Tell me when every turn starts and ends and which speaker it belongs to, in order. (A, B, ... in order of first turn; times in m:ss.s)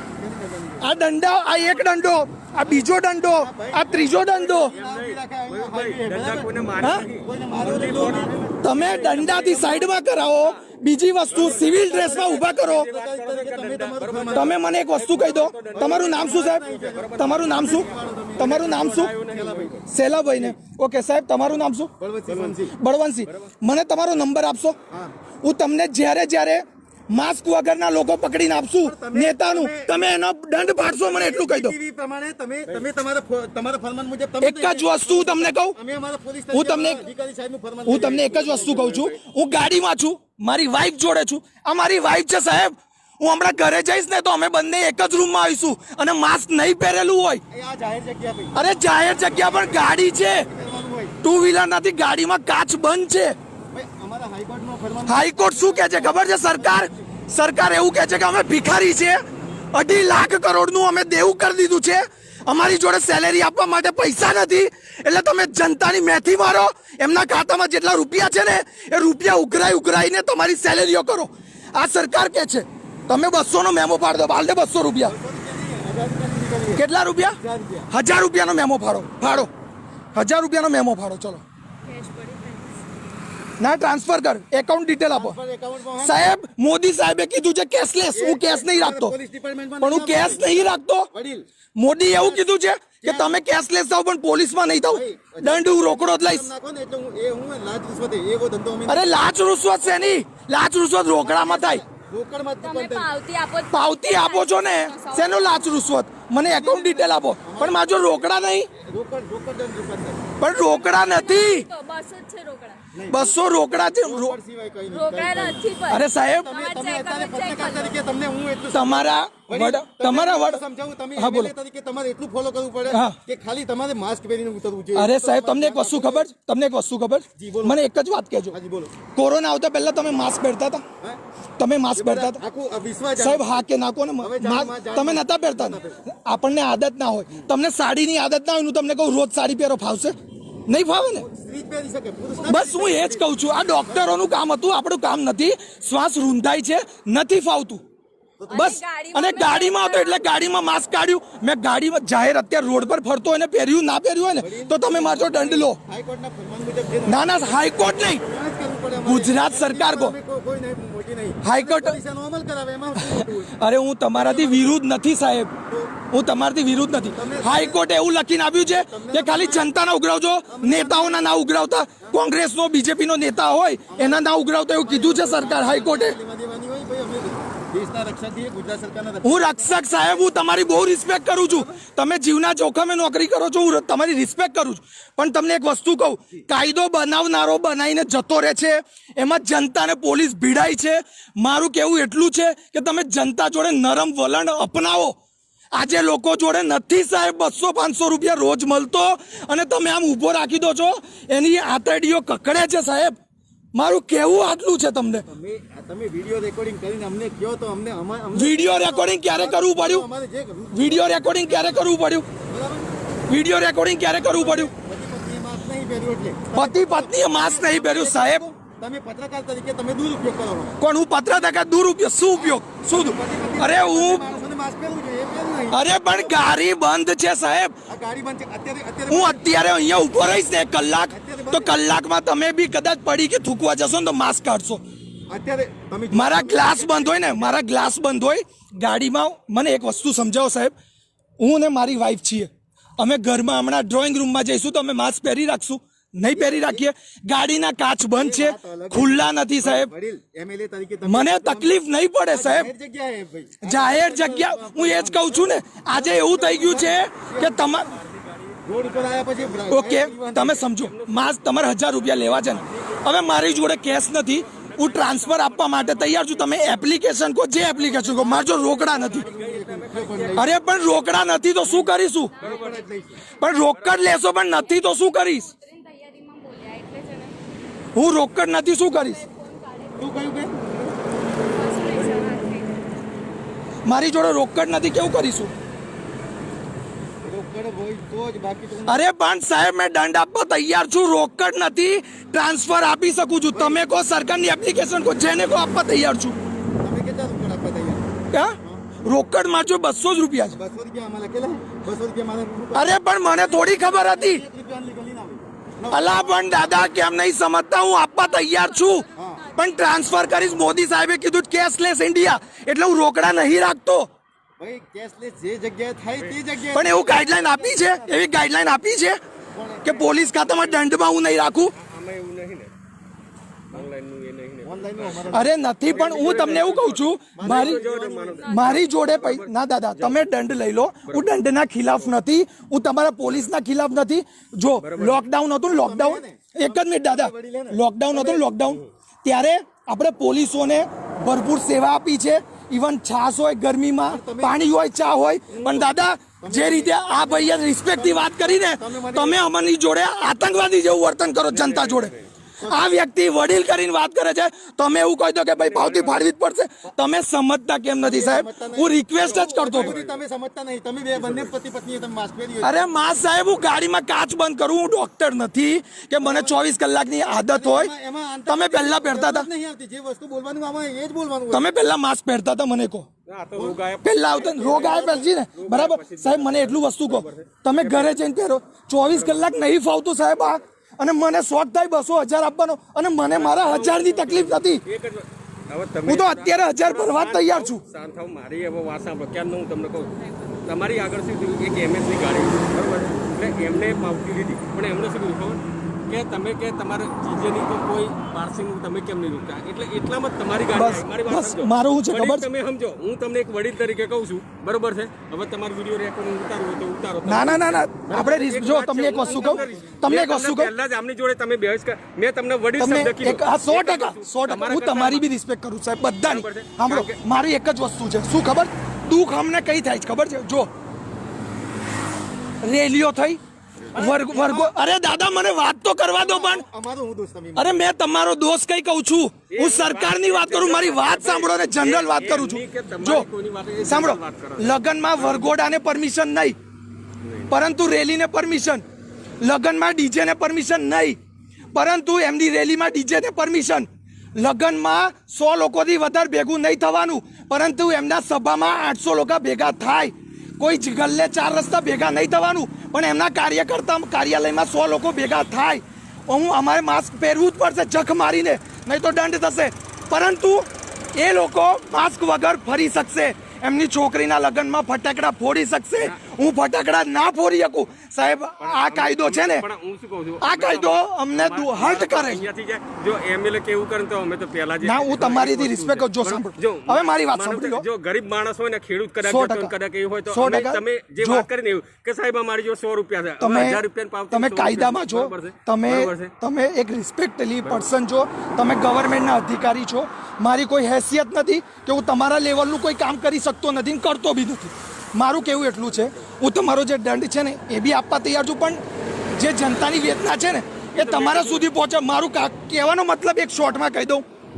0:00.2-0:00.9 A
0:00.8-0:04.7 B
0:02.7-0:06.5 A
0:04.7-0:10.6 C
0:06.8-0:07.1 B
0:07.1-0:08.6 A
0:08.6-0:12.9 B
0:11.3-0:19.9 C
0:11.3-0:14.5 A
0:14.3-0:16.6 B
0:15.7-0:18.7 A
0:17.2-0:19.2 B
0:19.2-0:19.8 A
0:19.9-0:21.9 B
0:22.0-0:22.8 A
0:22.6-0:24.8 B
0:25.4-0:31.8 B
0:28.8-0:30.0 A
0:30.9-0:38.8 A
0:34.4-0:35.8 B
0:36.5-0:37.0 B
0:37.9-0:47.4 B
0:38.2-0:39.2 C
0:47.5-0:48.6 A
0:48.6-0:50.5 B
0:49.2-0:51.2 A
0:51.2-0:53.4 B
0:53.7-0:57.0 A
0:55.1-1:15.2 B
1:15.0-1:16.9 A
1:16.8-1:17.4 B
1:17.4-1:17.9 A
1:17.9-1:19.5 B
1:20.2-1:21.4 B
1:21.9-1:22.8 D
1:23.6-1:25.4 B
1:25.1-1:26.3 A
1:26.0-1:29.2 B
1:28.1-1:31.5 A
1:29.8-1:31.1 B
1:31.8-1:36.5 B
1:32.1-1:32.4 A
1:33.0-1:33.4 A
1:34.9-1:39.2 A
1:38.9-1:41.8 B
1:41.2-1:43.1 A
1:42.6-1:45.8 D
1:43.7-1:48.7 B
1:46.4-1:50.2 A
1:50.4-1:51.7 B
1:50.5-1:52.8 D
1:52.9-1:55.7 A
1:53.1-1:54.4 B
1:54.9-1:58.0 D
1:55.9-1:56.5 B
1:56.4-2:06.3 A
1:58.7-2:00.6 B
2:01.2-2:01.5 B
2:02.9-2:03.2 B
2:05.0-2:08.6 B
2:07.4-2:07.8 A
2:08.5-2:08.9 A
2:09.1-2:10.8 B
2:11.6-2:12.4 B
2:12.0-2:13.6 A
2:13.2-2:20.1 B
2:14.2-2:16.0 A
2:20.7-2:21.3 B
2:21.2-2:24.3 A
2:22.5-2:27.8 B
2:28.4-2:28.8 A
2:28.5-2:30.4 D
2:28.5-2:35.8 B
2:34.4-2:43.6 A
2:37.1-2:38.2 B
2:39.0-2:40.2 B
2:41.4-2:42.0 B
2:43.0-2:45.5 B
2:44.1-2:44.8 A
2:46.1-2:56.2 B
2:47.1-2:47.8 A
2:48.9-2:49.7 A
2:50.5-2:51.4 A
2:53.9-3:00.1 A
2:59.2-3:15.2 B
3:01.4-3:01.8 A
3:15.7-3:23.2 B
3:23.8-3:25.3 B
3:25.3-3:33.0 A
3:28.3-3:30.1 B
3:30.7-3:32.3 B
3:33.3-3:34.7 B
3:34.2-3:40.8 A
3:36.5-3:38.5 B
3:40.8-3:44.3 B
3:42.4-3:46.4 A
3:45.7-3:47.8 B
3:47.9-3:49.7 A
3:49.1-3:54.8 B
3:51.1-3:51.8 A
3:55.3-3:57.6 A
3:56.1-4:00.7 B
4:01.4-4:09.9 B
4:06.3-4:06.9 A
4:08.2-4:11.8 A
4:11.0-4:12.7 B
4:12.3-4:17.7 A
4:13.6-4:17.9 B
4:17.3-4:19.8 C
4:18.6-4:20.7 A
4:19.7-4:29.3 B
4:20.6-4:32.9 C
4:29.0-4:30.5 A
4:30.4-4:32.4 B
4:32.3-4:33.3 D
4:32.4-4:33.2 A
4:33.4-4:35.5 B
4:33.4-4:34.2 C
4:34.4-4:37.4 D
4:38.0-4:39.2 B
4:38.6-4:40.3 D
4:40.0-4:40.9 A
4:41.4-4:42.8 D
4:43.8-4:45.5 B
4:47.2-4:49.0 A
4:48.8-4:56.4 B
4:53.5-4:53.8 A
4:56.8-4:58.9 A
4:58.3-5:00.6 B
5:00.5-5:06.8 A
5:02.7-5:04.4 B
5:05.9-5:14.1 B
5:08.1-5:10.3 D
5:09.1-5:09.5 A
5:14.6-5:18.2 A
5:16.7-5:19.2 B
5:19.5-5:20.5 A
5:19.8-5:21.7 B
5:21.7-5:22.7 C
5:23.7-5:30.4 C
5:24.6-5:26.7 A
5:25.3-5:27.8 B
5:27.3-5:28.5 A
5:28.4-5:29.0 D
5:28.5-5:52.1 B
5:31.1-5:32.2 C
5:34.8-5:35.3 C
5:35.7-5:38.7 A
5:44.0-5:44.7 A
5:45.6-5:49.6 A
5:51.4-5:52.3 C
5:52.6-5:53.0 A
5:52.6-6:00.0 B
5:55.6-5:56.3 C
5:58.0-6:02.8 A
5:59.2-6:00.2 C
6:01.2-6:01.5 C
6:02.6-6:07.9 B
6:06.2-6:06.6 A
6:07.4-6:11.7 A
6:08.5-6:09.5 B
6:11.5-6:13.1 B
6:13.3-6:18.2 C
6:13.6-6:13.8 A
6:14.0-6:24.8 B
6:19.1-6:19.7 C
6:23.3-6:55.3 C
6:26.1-6:27.8 B
6:40.7-6:42.5 B
6:47.2-6:50.7 B
6:49.2-6:50.1 A
6:52.8-7:00.7 B
6:56.2-6:57.2 C
7:02.6-7:03.4 B
7:04.0-7:04.8 A
7:04.0-7:06.7 B
7:06.2-7:07.8 A
7:07.6-7:13.3 B
7:09.5-7:15.5 C
7:13.8-7:16.6 B
7:17.2-7:17.5 C
7:17.5-7:18.8 B
7:19.4-7:21.2 B
7:21.7-7:49.7 B
7:46.0-7:46.2 C
7:48.6-8:06.3 C
7:50.4-7:52.5 B
7:54.8-7:57.9 B
7:59.2-7:59.7 B
8:00.3-8:01.5 B
8:03.4-8:18.8 B
8:07.6-8:07.9 C
8:15.4-8:16.3 C
8:19.4-8:24.2 B
8:20.9-8:21.7 C